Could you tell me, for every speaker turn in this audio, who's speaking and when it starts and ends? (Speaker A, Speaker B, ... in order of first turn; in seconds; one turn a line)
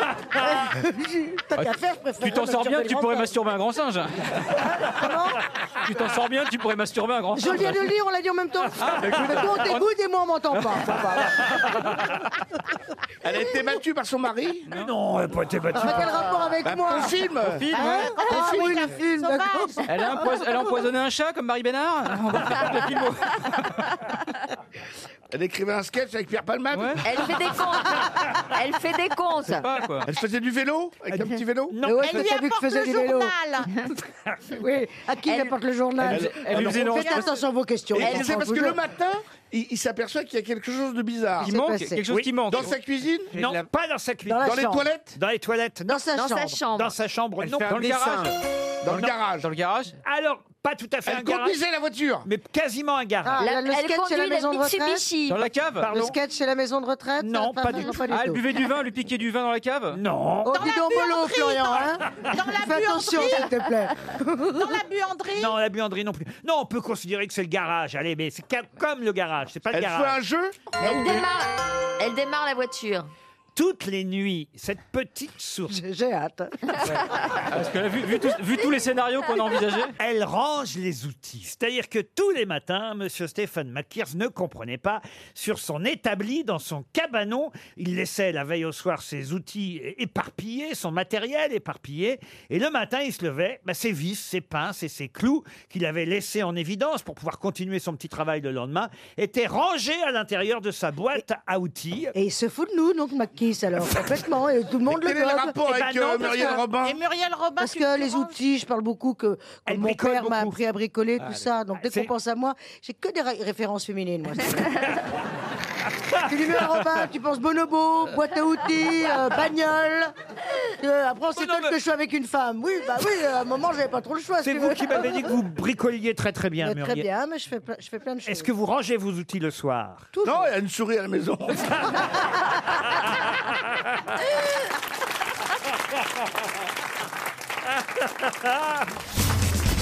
Speaker A: 0.3-3.3
Speaker B: 2.2-4.4
Speaker A: 4.5-5.4
Speaker B: 5.8-7.9
Speaker A: 7.3-11.4
Speaker B: 8.8-9.8
Speaker B: 10.5-11.0
Speaker C: 13.2-14.7
Speaker D: 14.7-16.2
Speaker A: 15.7-17.2
Speaker C: 16.6-18.9
Speaker B: 17.4-18.2
Speaker E: 17.7-19.9
Speaker A: 17.7-20.2
Speaker B: 19.9-23.7
Speaker C: 25.3-27.1
Speaker B: 26.7-27.0
Speaker F: 27.0-29.7
Speaker B: 29.4-30.1
Speaker C: 30.1-31.8
Speaker D: 31.1-32.2
Speaker A: 31.8-33.3
Speaker E: 32.0-33.7
Speaker A: 34.6-38.8
Speaker B: 36.0-37.4
Speaker C: 36.1-37.0
Speaker C: 37.9-41.5
Speaker B: 41.4-42.7
Speaker A: 41.4-42.0
Speaker D: 42.1-42.6
Speaker C: 42.5-43.4
Speaker D: 43.3-44.6
Speaker A: 44.2-44.9
Speaker C: 44.4-45.1
Speaker D: 45.1-46.0
Speaker A: 45.9-46.6
Speaker F: 46.1-47.0
Speaker D: 46.7-47.9
Speaker B: 47.4-50.0
Speaker C: 48.8-49.5
Speaker D: 50.0-51.6
Speaker C: 51.0-52.2
Speaker D: 52.2-53.4
Speaker A: 53.2-55.0
Speaker F: 53.4-55.4
Speaker B: 55.3-55.9
Speaker D: 55.8-56.2
Speaker A: 55.9-58.4
Speaker D: 57.2-58.0
Speaker B: 58.1-60.0
Speaker D: 59.9-60.6
Speaker A: 60.4-62.0
Speaker E: 60.5-63.5
Speaker A: 62.5-64.6
Speaker E: 64.5-65.5
Speaker D: 65.3-70.2
Speaker C: 69.7-71.3
Speaker F: 70.8-73.1
Speaker D: 73.5-75.8
Speaker A: 75.7-76.7
Speaker B: 76.8-79.9
Speaker D: 80.0-102.1
Speaker A: 102.1-105.5
Speaker C: 104.8-107.0
Speaker D: 105.6-106.6
Speaker E: 106.8-108.4
Speaker A: 107.6-114.8
Speaker D: 109.7-110.6
Speaker D: 111.8-112.1
Speaker A: 116.2-120.1
Speaker A: 120.8-125.3
Speaker D: 121.3-121.8
Speaker D: 124.4-127.1
Speaker A: 126.6-128.5
Speaker D: 128.3-130.1
Speaker A: 130.1-130.5
Speaker C: 130.2-131.9
Speaker D: 138.0-138.8